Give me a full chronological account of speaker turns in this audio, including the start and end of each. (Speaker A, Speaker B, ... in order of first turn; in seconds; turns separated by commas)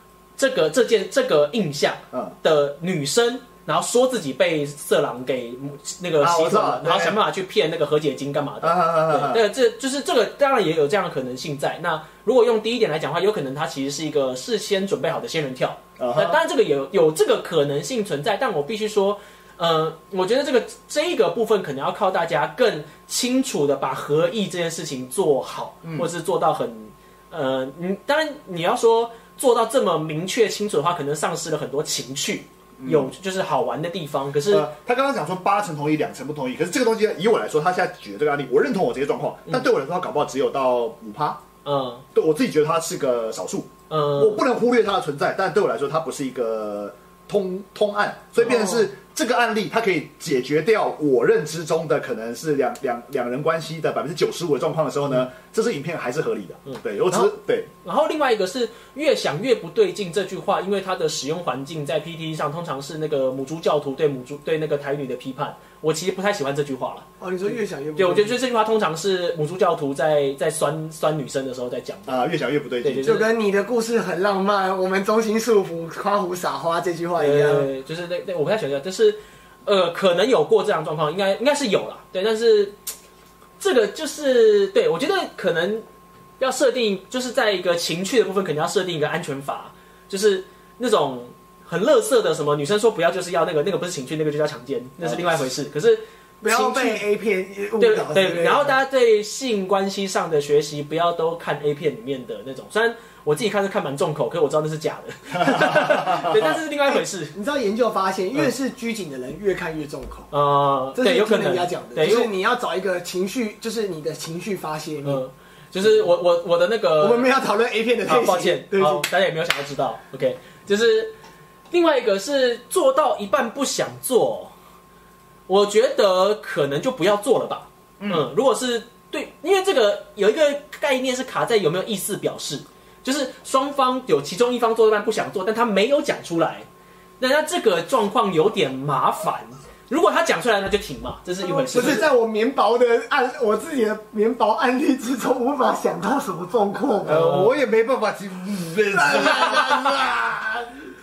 Speaker A: 0.4-34.7, Speaker B: 6.2-7.2, Speaker B: 8.6-9.4, Speaker B: 16.0-16.4, Speaker B: 25.8-26.1, Speaker B: 32.8-33.1, Speaker B: 34.5-41.4, Speaker A: 41.6-42.0, Speaker B: 42.1-57.7, Speaker A: 43.9-44.4, Speaker C: 48.5-48.8, Speaker A: 56.7-72.2, Speaker C: 67.2-68.4, Speaker B: 72.1-73.2, Speaker A: 72.8-73.3, Speaker C: 73.0-77.7, Speaker A: 77.2-82.8, Speaker A: 83.6-85.8, Speaker A: 86.4-97.0, Speaker B: 95.0-95.3, Speaker C: 96.4-98.8, Speaker A: 97.8-107.3, Speaker B: 105.4-106.5, Speaker C: 106.9-110.3, Speaker A: 110.3-112.3, Speaker C: 111.0-115.2, Speaker A: 115.0-117.3, Speaker C: 117.0-119.1, Speaker A: 118.1-121.1, Speaker A: 121.7-124.5, Speaker A: 125.5-136.7, Speaker B: 128.0-128.3, Speaker A: 137.2-142.1, Speaker C: 141.4-147.2, Speaker A: 147.1-147.5, Speaker B: 147.1-150.2, Speaker C: 148.9-150.7